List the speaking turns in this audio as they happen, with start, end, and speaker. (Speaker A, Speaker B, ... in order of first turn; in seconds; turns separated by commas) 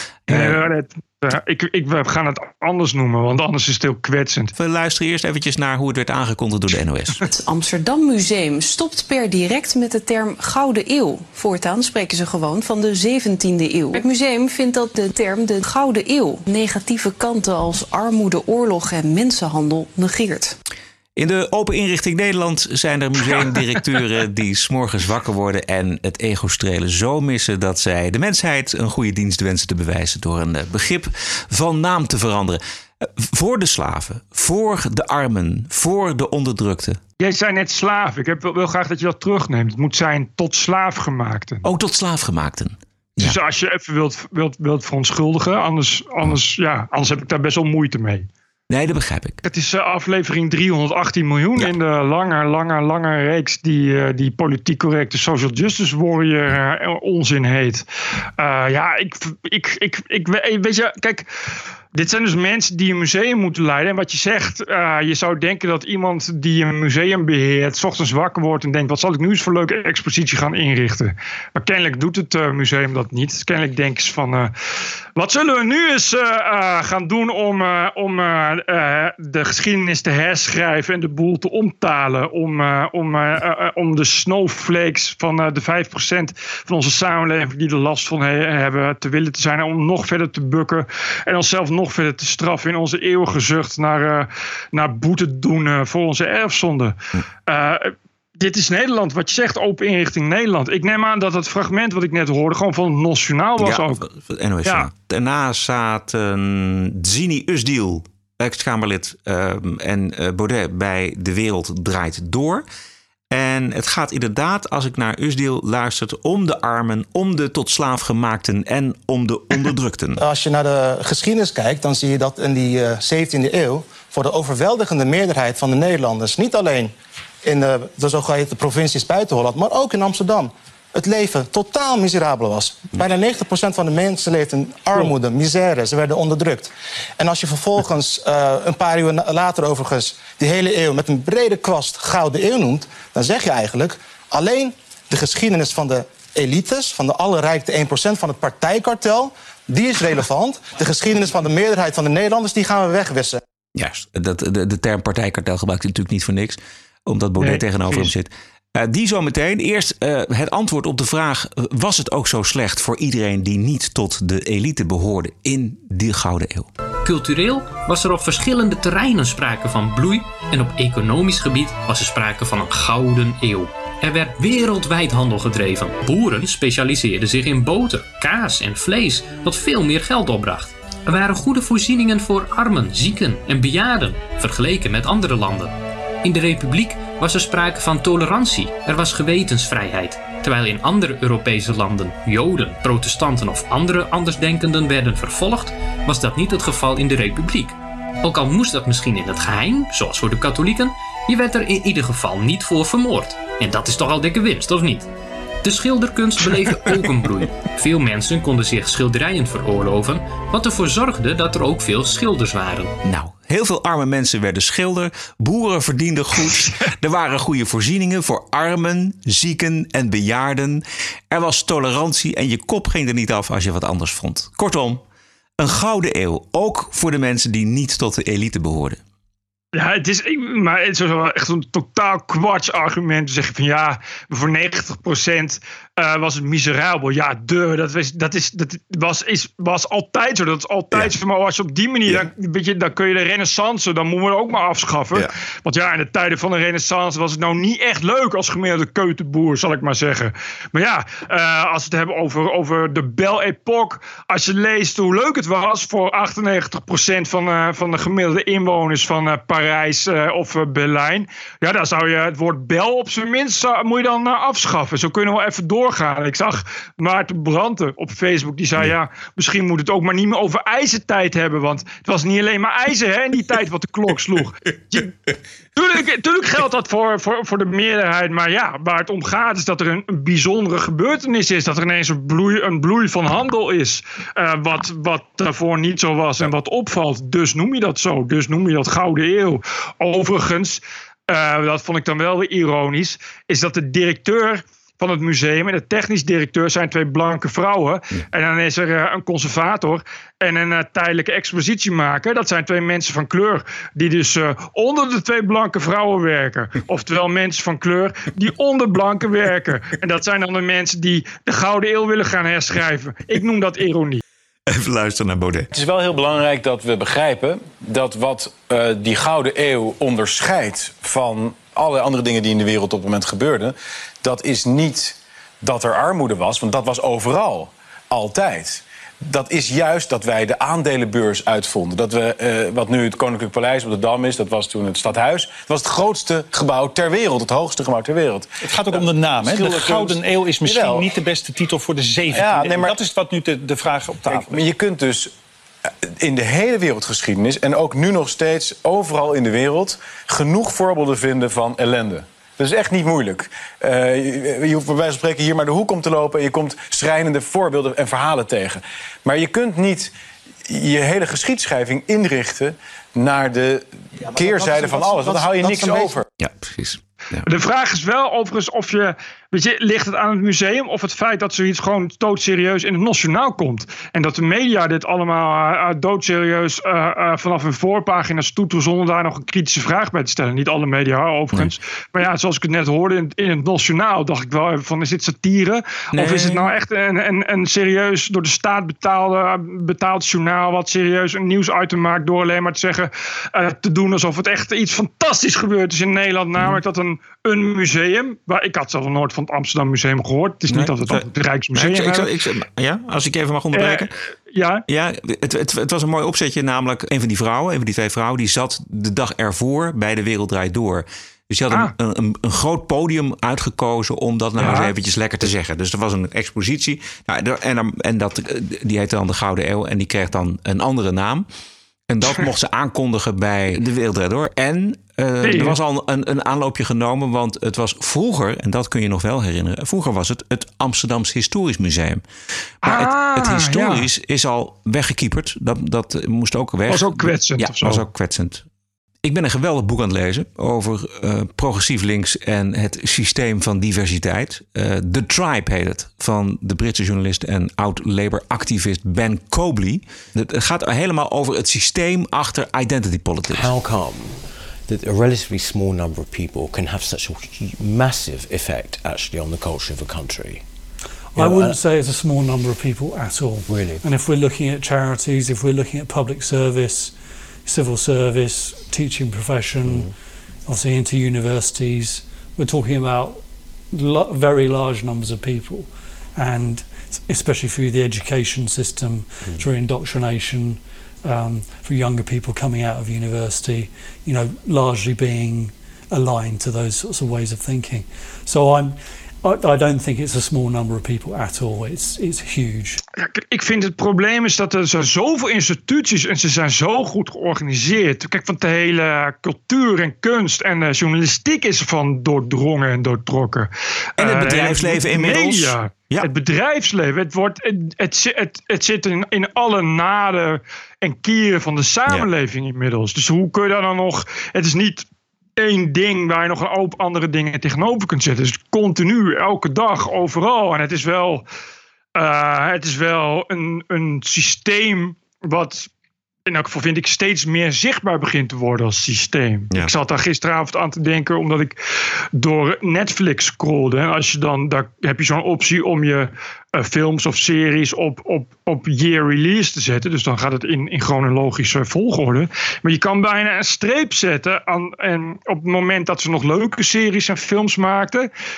Speaker A: 0.3-0.6, Speaker B: 0.3-4.5, Speaker A: 4.5-7.2, Speaker C: 7.2-20.5, Speaker A: 21.2-37.0, Speaker B: 37.2-41.6, Speaker A: 41.6-43.4, Speaker B: 43.2-48.3, Speaker A: 48.7-49.4, Speaker B: 49.4-57.9, Speaker B: 58.4-61.3, Speaker B: 61.9-74.5, Speaker B: 75.2-104.0, Speaker A: 103.6-112.7, Speaker A: 113.3-120.2, Speaker D: 120.2-126.9, Speaker D: 127.4-153.4, Speaker A: 153.8-166.7, Speaker B: 157.4-158.1, Speaker E: 167.1-205.1, Speaker E: 205.6-212.9, Speaker A: 213.0-225.0, Speaker A: 225.6-229.0, Speaker B: 229.7-275.1, Speaker B: 275.8-314.2, Speaker A: 314.7-315.7, Speaker F: 315.7-341.1, Speaker G: 338.7-344.6, Speaker F: 342.3-343.0, Speaker F: 344.3-345.3, Speaker F: 346.1-360.1, Speaker F: 360.7-366.2, Speaker D: 364.4-366.2, Speaker A: 366.4-367.4, Speaker B: 367.4-402.3, Speaker A: 386.1-386.7, Speaker A: 400.7-404.1, Speaker B: 403.7-404.8, Speaker A: 404.9-421.5, Speaker B: 414.6-414.9, Speaker A: 422.1-432.2, Speaker B: 425.4-425.8, Speaker B: 432.8-434.1, Speaker A: 432.8-438.6, Speaker B: 436.9-438.1, Speaker A: 439.2-453.7, Speaker H: 453.5-460.6, Speaker I: 461.3-467.1, Speaker H: 461.4-461.8, Speaker H: 463.7-464.0, Speaker I: 467.7-470.1, Speaker H: 469.8-470.2, Speaker I: 470.7-493.0, Speaker H: 479.4-479.7, Speaker B: 493.2-515.0, Speaker A: 504.2-506.3, Speaker B: 515.6-521.4, Speaker B: 522.1-525.9, Speaker B: 526.5-531.8, Speaker B: 532.4-548.3